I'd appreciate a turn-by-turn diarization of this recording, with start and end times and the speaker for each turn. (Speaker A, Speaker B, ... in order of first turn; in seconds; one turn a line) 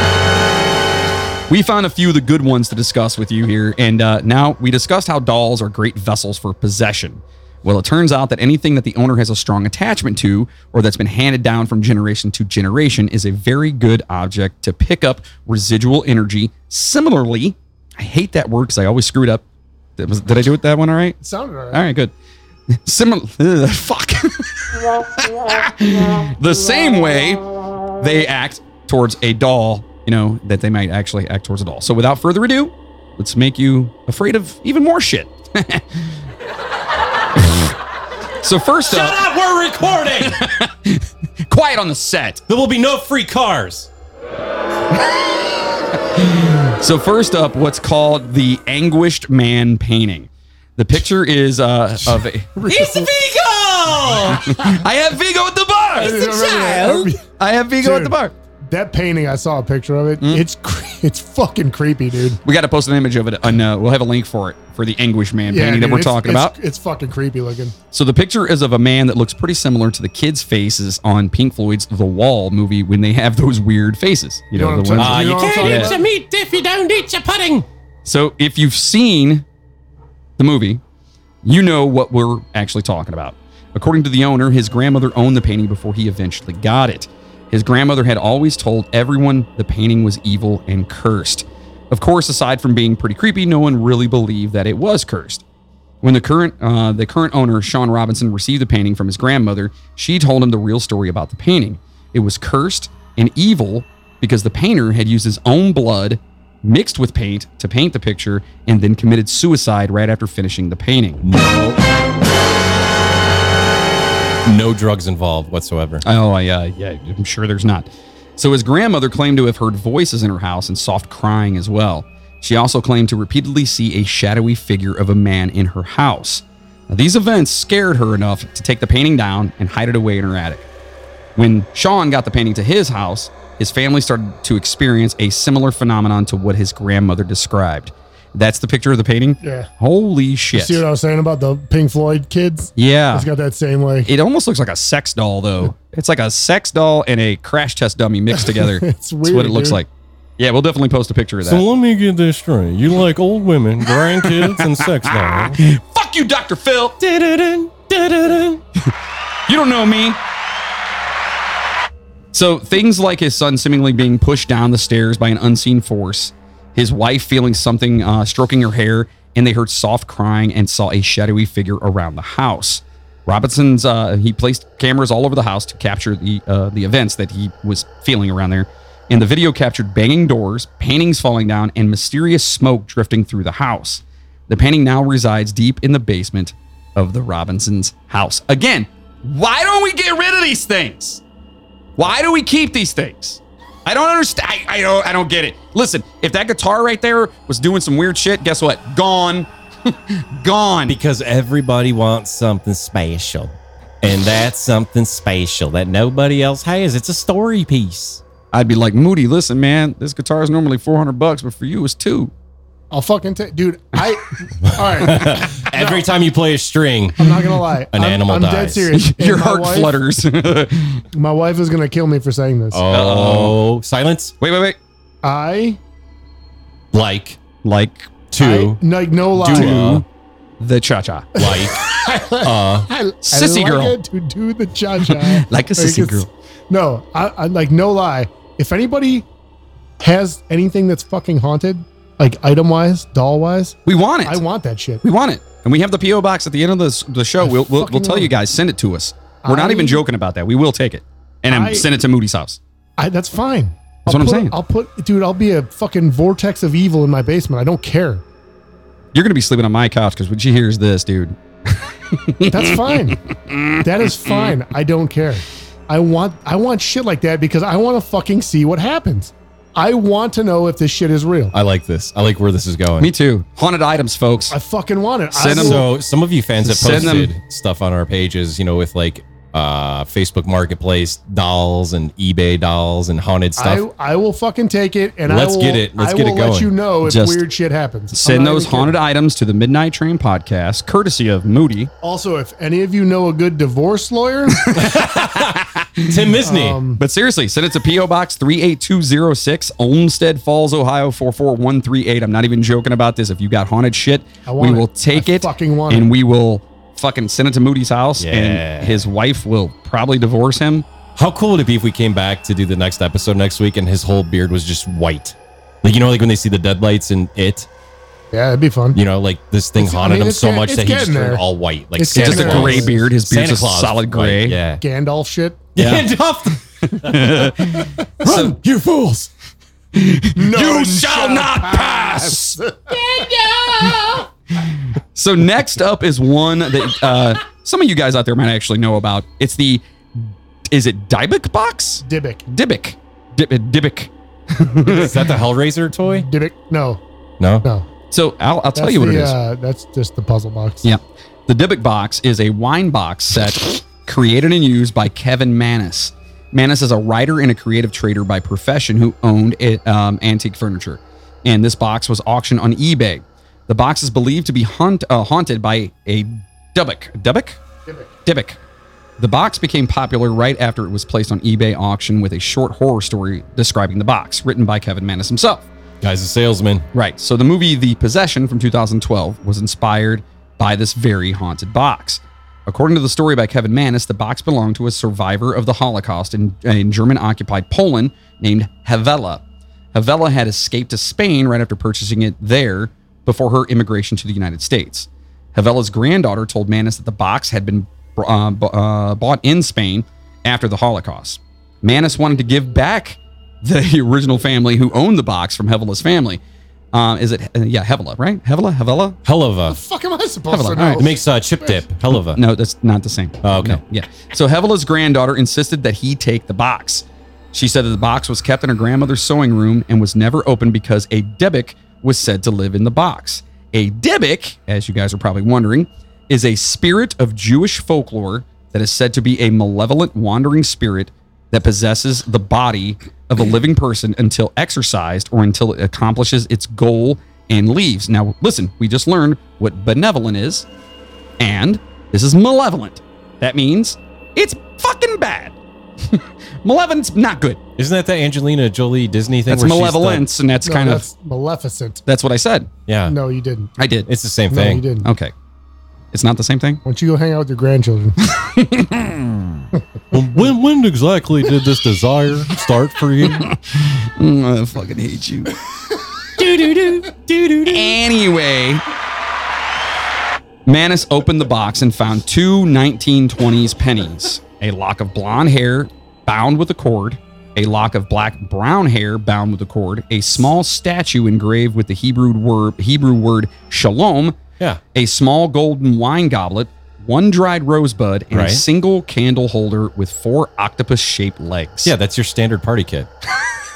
Speaker A: 1.5-19.4
Speaker A: 20.0-21.2
Speaker B: 21.2-21.8
Speaker A: 21.7-22.1
Speaker A: 22.7-27.4
Speaker A: 28.0-36.0
Speaker A: 38.4-39.2
Speaker C: 38.9-40.4
Speaker A: 40.2-42.4
Speaker C: 42.5-43.9
Speaker A: 46.2-52.5
Speaker B: 52.5-53.1
Speaker C: 53.3-54.5
Speaker A: 54.3-56.3
Speaker B: 56.0-57.2
Speaker D: 56.1-57.1
Speaker A: 57.2-58.3
Speaker B: 57.8-58.1
Speaker B: 58.7-62.4
Speaker A: 60.2-60.5
Speaker A: 62.4-66.5
Speaker B: 65.5-67.7
Speaker A: 67.9-75.9
Speaker B: 74.5-76.0
Speaker C: 75.0-75.7
Speaker D: 75.3-77.7
Speaker A: 78.0-79.4
Speaker A: 80.4-80.8
Speaker A: 81.4-95.4
Speaker A: 96.0-111.2
Speaker C: 111.2-111.8
Speaker C: 114.4-116.0
Speaker A: 116.0-130.7
Speaker A: 131.3-140.8
Speaker B: 139.4-139.7
Speaker B: 140.5-144.1
Speaker A: 142.8-143.3
Speaker A: 144.1-151.7
Speaker B: 148.4-149.8
Speaker C: 151.4-155.6
Speaker A: 153.9-158.9
Speaker C: 157.2-157.7
Speaker A: 159.5-160.2
Speaker A: 162.3-191.2
Speaker A: 192.0-201.0
Speaker C: 200.9-208.2
Speaker A: 208.5-212.3
Speaker B: 212.9-216.1
Speaker C: 214.7-217.4
Speaker B: 217.2-219.9
Speaker C: 217.9-218.9
Speaker A: 218.9-221.0
Speaker B: 221.1-222.8
Speaker C: 222.7-224.3
Speaker A: 222.9-223.6
Speaker A: 224.4-224.8
Speaker B: 225.2-225.8
Speaker C: 226.9-227.4
Speaker A: 227.6-228.1
Speaker C: 228.3-228.8
Speaker B: 228.4-229.9
Speaker C: 229.3-230.0
Speaker A: 229.4-230.0
Speaker A: 230.6-231.3
Speaker C: 231.3-231.8
Speaker B: 231.4-239.2
Speaker C: 232.4-232.9
Speaker A: 233.2-234.0
Speaker A: 235.0-236.3
Speaker B: 240.0-245.0
Speaker A: 243.8-244.4
Speaker A: 245.0-252.6
Speaker B: 247.4-248.3
Speaker B: 249.4-250.0
Speaker B: 251.5-251.8
Speaker B: 253.0-258.2
Speaker A: 254.1-254.5
Speaker A: 259.1-264.5
Speaker B: 262.4-263.2
Speaker B: 263.8-271.5
Speaker C: 271.5-273.1
Speaker A: 273.0-274.6
Speaker B: 274.5-275.9
Speaker A: 275.3-275.8
Speaker C: 275.5-283.8
Speaker A: 276.6-277.3
Speaker B: 283.6-288.9
Speaker C: 285.2-286.7
Speaker A: 287.0-287.5
Speaker A: 288.1-291.9
Speaker B: 292.0-294.7
Speaker A: 294.7-296.3
Speaker C: 294.7-296.8
Speaker B: 296.4-297.0
Speaker A: 297.0-310.9
Speaker B: 304.4-306.1
Speaker C: 308.2-309.0
Speaker C: 311.1-317.7
Speaker B: 318.3-319.0
Speaker C: 318.9-324.8
Speaker B: 319.8-323.0
Speaker A: 322.1-324.6
Speaker B: 324.8-325.7
Speaker C: 325.8-327.7
Speaker A: 325.8-326.1
Speaker A: 327.0-328.6
Speaker C: 328.2-329.3
Speaker A: 329.9-332.6
Speaker B: 330.4-333.0
Speaker D: 332.9-334.0
Speaker B: 333.7-334.2
Speaker A: 335.1-345.1
Speaker B: 342.0-342.4
Speaker C: 344.8-346.3
Speaker B: 344.9-345.1
Speaker B: 346.0-347.0
Speaker C: 347.4-347.6
Speaker A: 348.1-349.4
Speaker B: 348.8-350.9
Speaker A: 350.8-367.6
Speaker A: 368.2-368.6
Speaker A: 369.2-375.6
Speaker C: 376.0-376.8
Speaker A: 376.9-389.4
Speaker A: 389.9-406.4
Speaker A: 406.9-409.2
Speaker C: 409.2-409.8
Speaker B: 409.7-411.8
Speaker A: 410.5-411.1
Speaker C: 410.9-412.4
Speaker A: 412.1-440.7
Speaker C: 413.4-413.8
Speaker A: 441.4-447.6
Speaker C: 447.8-450.2
Speaker A: 449.5-451.1
Speaker B: 450.6-452.0
Speaker A: 452.1-452.7
Speaker C: 452.9-453.1
Speaker B: 453.1-453.7
Speaker A: 453.8-454.1
Speaker C: 454.1-454.9
Speaker B: 454.5-455.1
Speaker A: 455.0-455.3
Speaker A: 456.1-456.8
Speaker B: 456.8-458.2
Speaker A: 458.3-459.4
Speaker C: 460.1-463.5
Speaker A: 463.2-465.5
Speaker A: 466.4-467.0
Speaker C: 467.0-467.8
Speaker A: 467.6-468.8
Speaker A: 470.6-491.9
Speaker C: 488.3-488.6
Speaker C: 491.8-493.1